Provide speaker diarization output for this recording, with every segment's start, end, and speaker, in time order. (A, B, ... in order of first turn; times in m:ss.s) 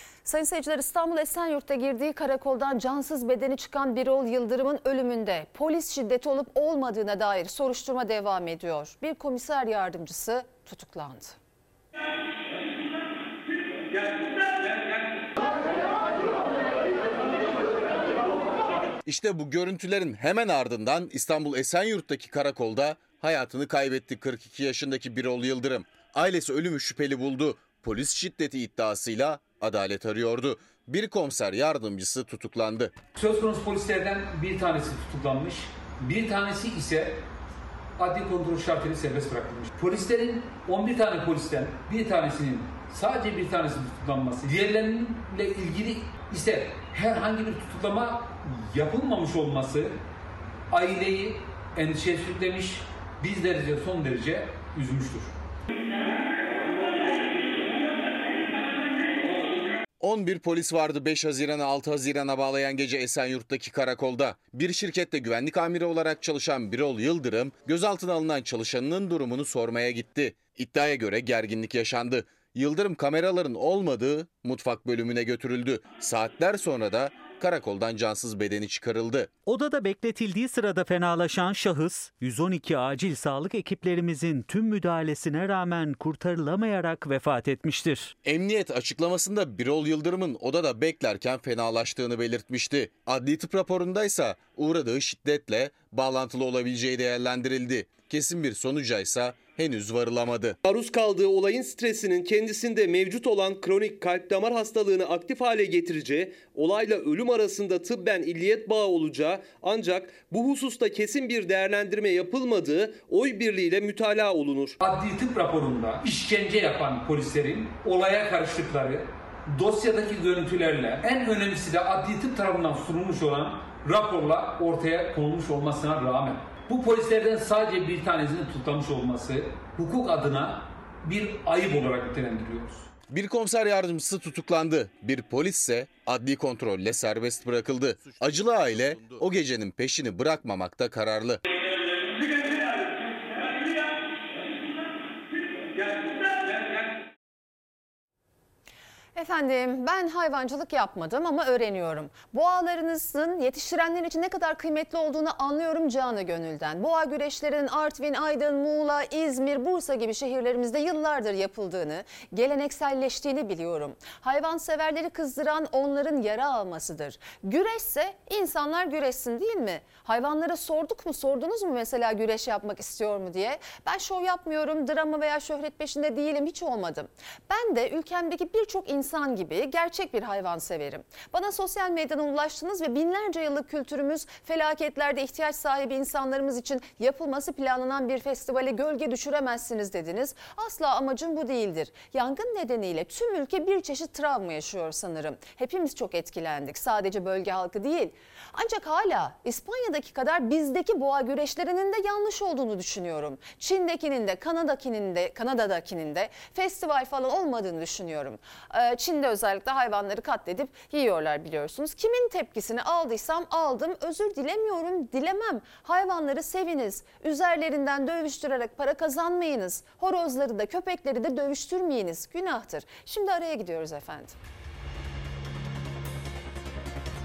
0:00.2-0:11.4 A
0:19.1-0:32.9 B
0:33.2-0:37.2 C
0:38.0-0:50.0 C
0:50.7-0:55.3 C
1:00.0-1:19.3 B
1:19.5-1:28.2 D
1:28.2-1:40.6 B
1:40.6-1:54.8 E
1:54.8-2:12.9 C
2:13.1-2:21.4 B
2:29.2-3:44.4 A